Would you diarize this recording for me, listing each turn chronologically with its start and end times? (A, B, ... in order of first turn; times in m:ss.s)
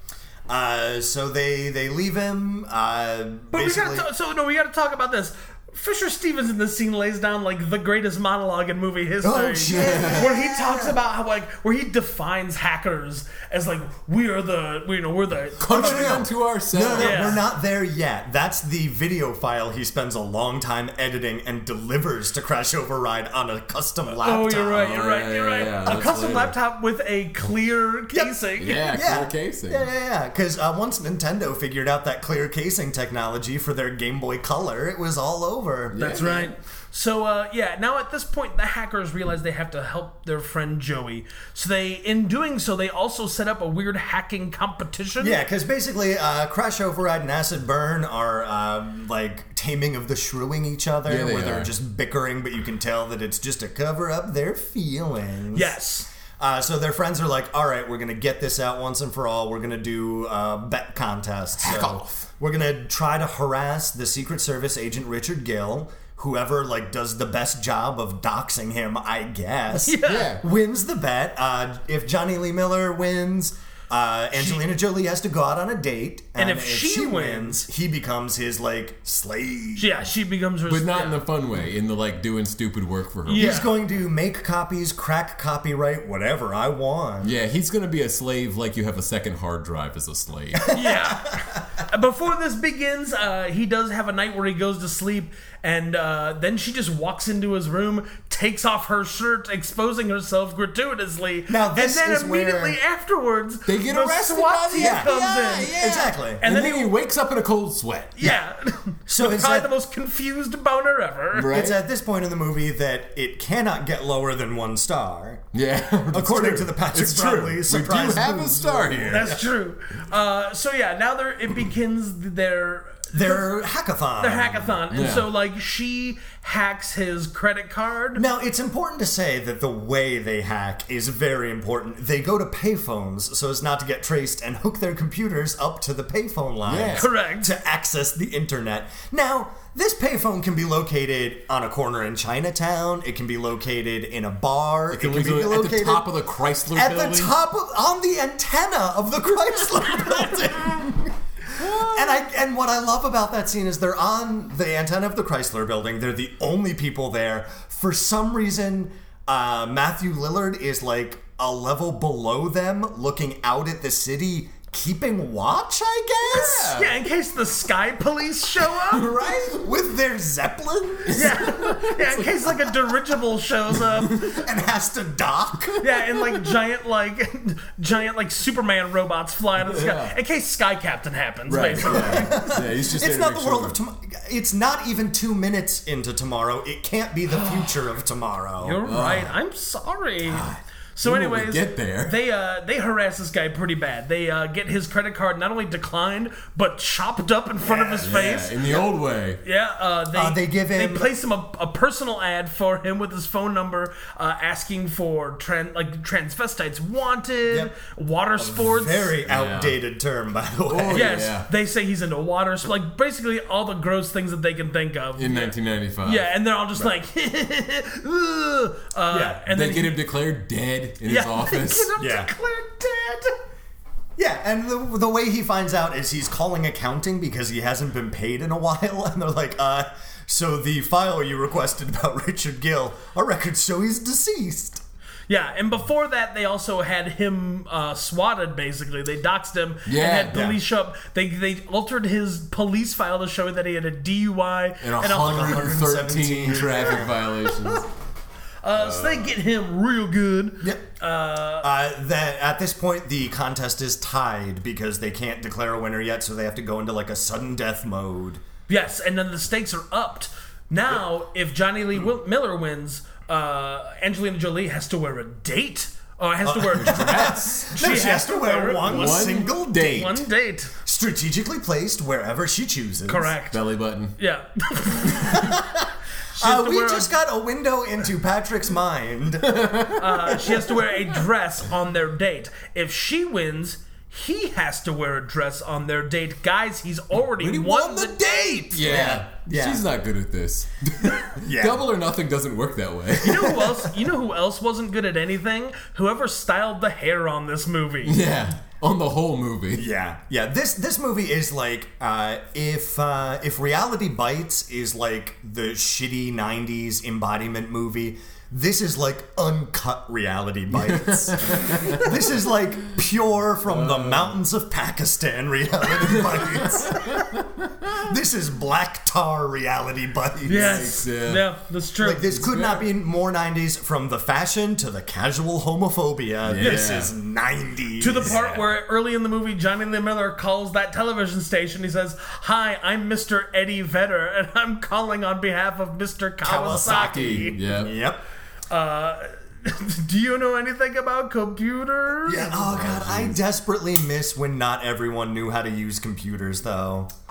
0:00.5-0:04.1 A
0:03.5-0:16.3 B
0:09.2-0:11.0 A
0:09.8-0:10.3 C
0:15.6-0:17.4 C
0:15.7-0:24.9 A
0:16.9-0:17.4 B
0:24.2-0:28.9 B
0:24.8-0:26.6 C
0:28.1-0:36.5 A
0:28.6-0:29.9 C
0:35.9-0:36.5 C
0:36.0-0:45.4 B
0:45.2-0:55.8 A
0:51.1-0:51.7 C
0:55.5-0:56.1 B
0:56.4-1:19.9 A
1:01.6-1:02.3 C
1:09.7-1:10.3 B
1:10.0-1:10.4 C
1:16.4-1:17.6 B
1:19.8-1:21.2 B
1:20.7-1:23.6 C
1:23.3-1:23.7 B
1:23.3-1:27.3 A
1:27.2-1:30.7 C
1:30.7-1:31.5 A
1:30.7-1:45.9 B
1:41.5-1:42.8 A
1:43.7-1:48.4 C
1:44.8-1:45.2 A
1:45.7-1:46.5 A
1:46.4-1:46.9 B
1:48.2-1:51.6 B
1:49.1-1:49.7 A
1:51.3-1:51.8 C
1:51.5-1:55.4 A
1:55.5-1:59.3 C
1:56.1-1:59.4 A
1:59.1-2:03.5 B
2:03.1-2:04.8 A
2:04.2-2:08.2 B
2:04.9-2:05.3 C
2:08.2-2:26.1 A
2:16.7-2:17.1 C
2:17.0-2:17.5 B
2:24.9-2:27.3 C
2:26.7-2:46.8 A
2:31.6-2:32.1 C
2:46.3-2:47.0 C
2:46.7-2:49.1 B
2:48.7-2:49.6 C
2:49.3-2:51.5 A
2:51.1-2:52.9 C
2:51.1-2:54.2 B
2:53.8-2:54.4 C
2:54.1-2:55.8 A
2:55.8-3:02.5 B
2:59.6-3:00.2 C
3:01.5-3:03.8 C
3:01.7-3:08.8 A
3:07.3-3:07.8 B
3:08.6-3:10.5 B
3:08.9-3:09.3 C
3:10.2-3:12.2 C
3:11.0-3:18.7 B
3:17.6-3:18.8 A
3:18.0-3:19.4 C
3:19.4-3:29.1 B
3:20.1-3:21.1 A
3:27.5-3:27.8 A
3:28.4-3:31.2 A
3:29.3-3:29.8 C
3:30.7-3:31.5 C
3:30.9-3:40.0 B
3:35.2-3:36.3 C
3:39.1-3:39.4 A
3:39.5-3:41.9 C
3:41.0-3:43.3 B
3:42.0-3:42.3 A
3:44.2-3:54.8 A
3:55.3-4:05.8 B
3:59.9-4:00.5 C
4:00.3-4:00.6 A
4:04.8-4:07.9 C
4:05.2-4:07.2 A
4:08.6-4:11.7 B
4:08.8-4:09.3 C
4:11.6-4:18.4 A
4:18.7-4:30.7 B
4:26.4-4:30.2 A
4:26.8-4:27.7 C
4:28.8-4:30.1 C
4:30.8-4:33.3 A
4:33.1-4:33.6 B
4:33.5-4:34.2 C
4:34.2-4:35.6 B
4:35.3-4:35.7 A
4:36.4-4:37.1 B
4:36.4-4:39.6 A
4:39.4-4:40.4 C
4:40.0-4:48.9 B
4:47.4-4:53.8 C
4:48.8-4:49.8 A
4:51.4-4:51.9 A
4:53.2-4:58.2 B
4:58.1-4:59.9 C
4:59.7-5:17.2 A
5:10.8-5:12.2 C
5:13.6-5:14.4 C
5:16.0-5:18.0 C
5:17.9-5:21.0 A
5:20.5-5:22.5 B
5:20.5-5:21.4 C
5:22.0-5:28.4 A
5:22.4-5:22.8 C
5:26.4-5:27.1 C
5:28.0-5:37.6 B
5:28.2-5:28.6 C
5:36.4-5:38.2 A
5:36.8-5:37.9 C
5:38.7-5:42.6 B
5:42.3-5:47.1 A
5:42.6-5:43.4 C